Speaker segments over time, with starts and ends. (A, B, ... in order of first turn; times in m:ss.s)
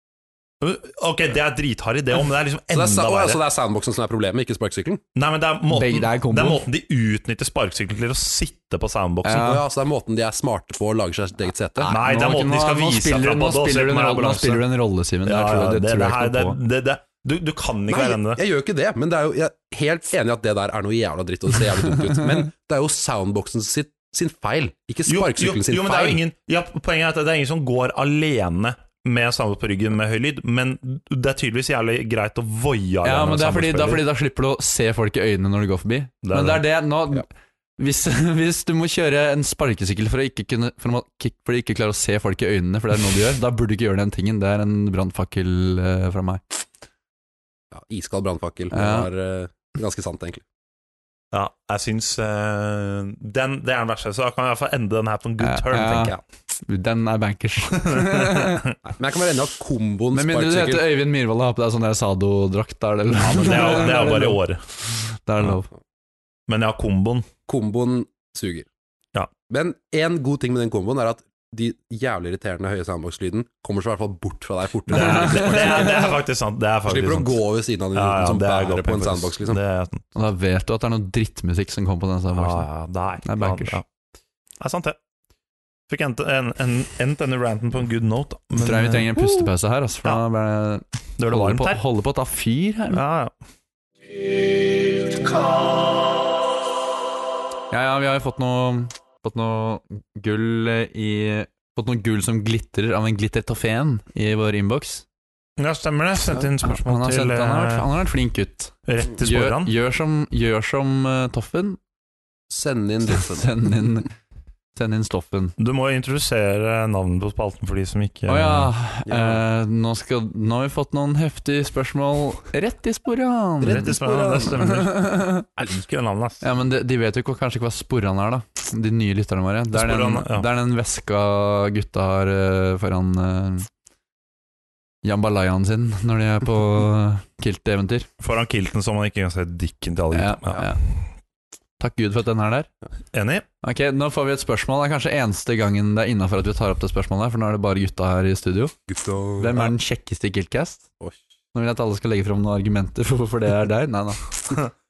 0:00.6-0:03.4 A
0:02.7-0:05.0 B
0:05.1-0:09.5 A
0:05.7-0:06.6 C
0:09.2-0:09.6 C
0:09.3-0:12.0 B
0:11.8-0:16.6 C
0:11.9-0:14.6 A
0:15.2-0:18.4 A
0:17.9-0:26.2 B
0:25.1-0:34.0 A
0:33.0-0:37.3 C
0:36.2-0:36.6 A
0:37.8-0:46.6 C
0:47.7-0:50.4 B
0:48.7-0:49.1 C
0:51.3-0:56.2 A
0:55.4-0:58.7 C
0:57.8-0:58.5 A
0:58.8-1:00.9 B
1:00.1-1:05.7 C
1:03.2-1:04.6 A
1:06.5-1:07.3 A
1:07.5-1:08.7 B
1:09.5-1:16.0 B
1:14.9-1:17.4 A
1:14.9-1:16.1 C
1:16.9-1:19.6 B
1:17.9-1:20.0 A
1:20.1-1:22.7 C
1:22.3-1:23.8 A
1:23.2-1:23.8 C
1:24.6-1:25.0 A
1:25.9-1:29.5 A
1:28.6-1:33.0 C
1:31.2-1:31.8 A
1:32.9-1:33.3 A
1:37.7-1:45.0 C
1:45.6-1:47.9 A
1:46.4-1:51.8 C
1:48.8-1:49.7 A
1:52.5-1:53.5 B
1:53.1-1:54.1 C
1:54.8-1:55.6 C
1:55.6-1:58.7 A
1:58.3-2:04.0 C
1:59.0-1:59.4 B
2:03.6-2:04.6 B
2:03.6-2:06.4 A
2:04.5-2:05.4 C
2:06.4-2:13.7 C
2:09.7-2:10.5 A
2:15.0-2:18.1 C
2:18.2-2:20.9 A
2:20.1-2:20.8 C
2:21.8-2:22.7 C
2:23.1-2:23.4 A
2:23.6-2:28.7 C
2:28.9-2:29.5 B
2:29.4-2:30.8 C
2:31.5-2:34.2 C